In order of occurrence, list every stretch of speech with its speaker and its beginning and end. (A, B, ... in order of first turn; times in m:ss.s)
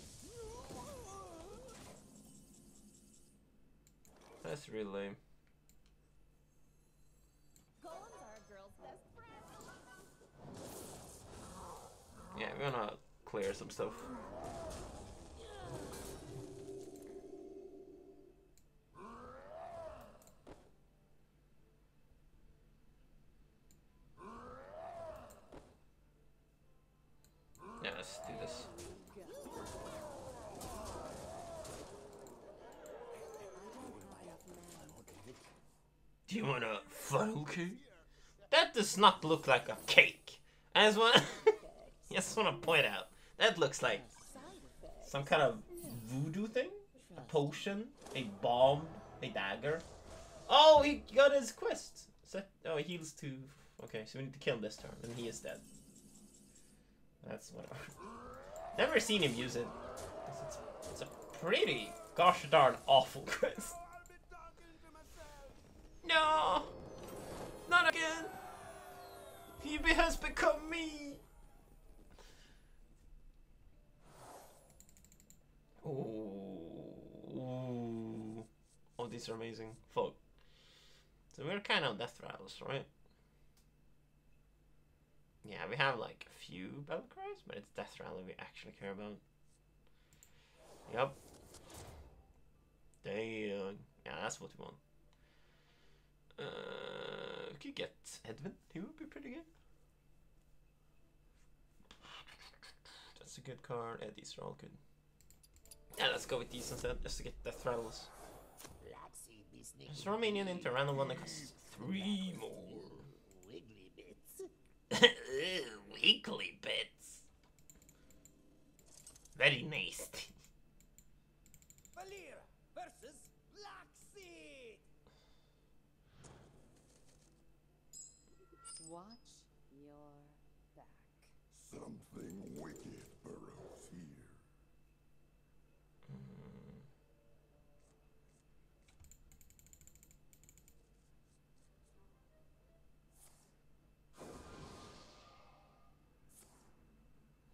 0:00.2-0:01.7 A
0:04.4-0:05.2 B
0:07.8-0:09.1 C
0:12.3-0:14.1 B
0:27.8-0:28.7 B
0:28.3-0:29.6 C
0:29.4-0:29.9 D
0:30.9-0:31.2 D
0:33.1-0:35.4 D
0:33.5-0:34.9 C
0:36.3-0:37.8 B
0:38.5-0:41.6 B
0:41.4-0:42.4 C
0:42.1-0:44.0 B
0:44.0-0:46.0 C
0:45.0-0:49.8 B
0:47.0-0:47.5 C
0:47.2-0:47.6 D
0:50.5-0:55.6 B
0:57.2-0:57.9 B
0:58.7-0:59.8 B
1:00.3-1:03.8 B
1:03.6-1:05.6 A
1:06.0-1:06.7 B
1:07.7-1:08.3 B
1:09.6-1:11.2 B
1:15.8-1:20.2 B
1:21.3-1:22.9 B
1:25.4-1:29.2 B
1:30.9-1:31.2 B
1:33.0-1:34.8 B
1:36.4-1:39.5 B
1:43.2-1:44.8 B
1:45.9-1:48.1 B
1:48.8-1:54.5 D
1:49.9-1:53.1 B
1:54.9-1:57.3 B
1:59.4-2:00.4 B
2:01.9-2:04.9 A
2:08.8-2:11.4 C
2:11.6-2:14.5 E
2:16.0-2:16.9 B